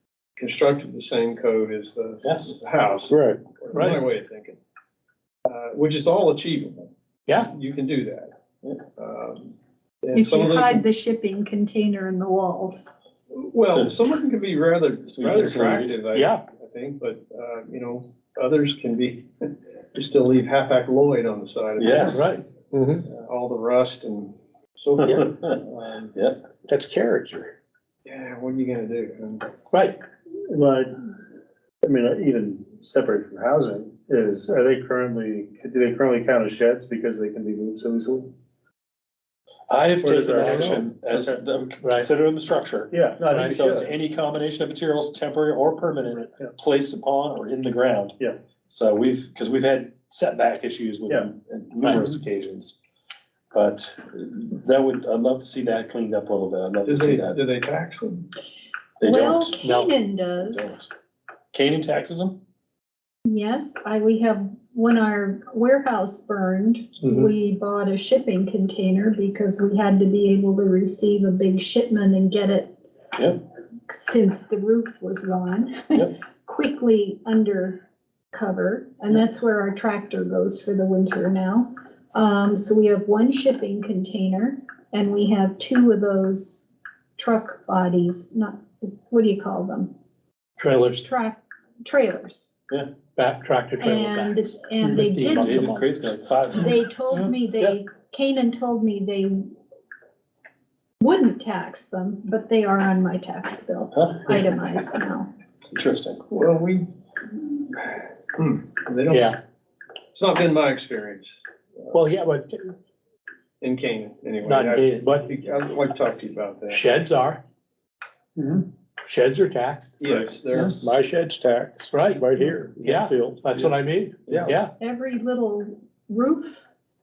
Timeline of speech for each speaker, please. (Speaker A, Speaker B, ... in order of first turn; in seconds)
Speaker A: 0.4-4.6, 5.5-8.3, 9.0-10.8, 13.3-22.3, 23.0-26.1, 28.0-29.5, 56.8-58.3, 106.3-106.9, 107.7-109.2, 110.1-111.9, 113.6-116.8, 120.0-120.7, 124.3-124.5
Speaker B: 2.2-2.6, 13.7-14.0, 15.0-16.0, 21.8-22.2, 26.1-26.4, 39.7-52.8, 53.5-57.4, 59.0-59.6, 60.4-60.9, 61.5-62.4, 95.3-96.8, 103.9-104.4, 105.7-106.2, 120.0-121.0
Speaker C: 3.1-4.0, 22.7-23.1, 26.7-27.5, 120.8-123.5
Speaker D: 3.7-4.0, 7.3-7.5, 16.1-16.4, 22.1-22.4, 29.7-30.0, 40.4-40.8, 41.8-42.1, 43.3-43.6, 51.8-52.1, 59.6-59.9, 90.6-91.0, 93.2-95.9, 109.1-109.4, 111.9-112.6, 114.4-115.3, 116.7-117.4, 119.0-120.0, 121.9-124.7
Speaker E: 10.1-12.9, 59.0-60.8, 63.2-72.7, 73.9-89.9, 91.0-92.5, 93.8-95.6, 96.5-99.5, 101.0-105.3, 124.8-126.7
Speaker F: 30.5-31.0, 31.8-38.3, 40.0-41.4, 42.9-43.9